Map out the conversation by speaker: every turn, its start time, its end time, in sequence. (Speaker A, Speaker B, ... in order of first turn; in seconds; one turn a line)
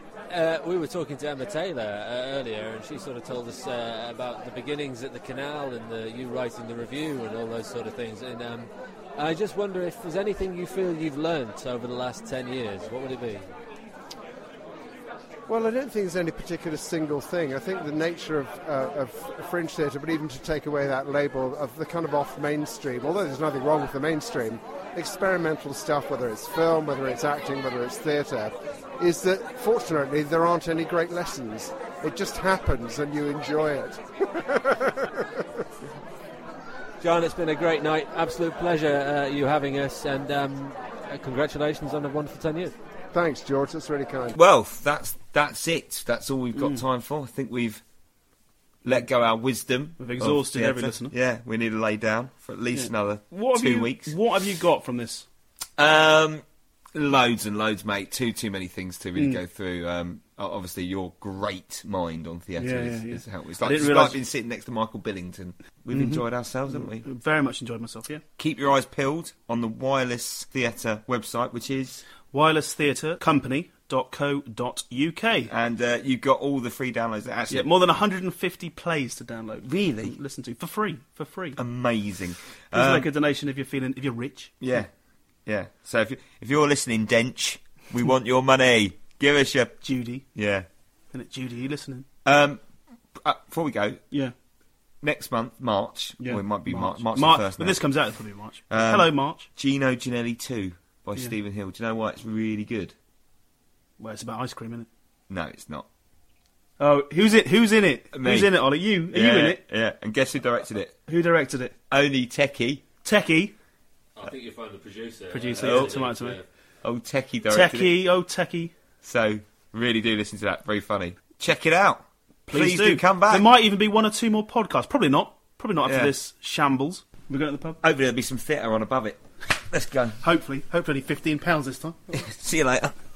Speaker A: 0.3-13.5
Speaker B: 15.5-35.3
Speaker A: 37.0-42.7
Speaker B: 43.1-44.4
Speaker C: 44.3-47.8
Speaker D: 46.5-46.8
Speaker C: 48.8-54.2
Speaker D: 50.0-51.1
Speaker D: 52.7-55.3
Speaker C: 55.8-56.4
Speaker C: 56.9-67.0
Speaker D: 62.6-64.2
Speaker D: 65.9-68.2
Speaker C: 68.4-72.0
Speaker D: 72.3-75.5
Speaker C: 75.5-77.7
Speaker D: 77.5-81.6
Speaker C: 81.6-83.1
Speaker D: 82.7-84.8
Speaker C: 84.6-84.9
Speaker C: 85.5-90.7
Speaker D: 89.8-90.2
Speaker D: 91.1-92.1
Speaker C: 92.2-92.6
Speaker C: 93.1-94.0
Speaker C: 95.0-98.0
Speaker D: 96.2-99.5
Speaker C: 98.7-102.9
Speaker D: 104.0-104.9
Speaker C: 105.3-105.8
Speaker D: 106.8-109.6
Speaker C: 108.1-110.9
Speaker D: 111.1-111.7
Speaker C: 111.9-112.8
Speaker D: 113.0-113.5
Speaker E: 114.2-116.5
Speaker D: 115.3-116.4
Speaker C: 115.6-116.0
Speaker C: 116.8-118.0
Speaker D: 117.5-118.7
Speaker C: 119.0-123.5
Speaker D: 122.5-127.8
Speaker C: 125.8-126.1
Speaker C: 127.8-130.2
Speaker D: 130.2-132.0
Speaker C: 132.2-132.9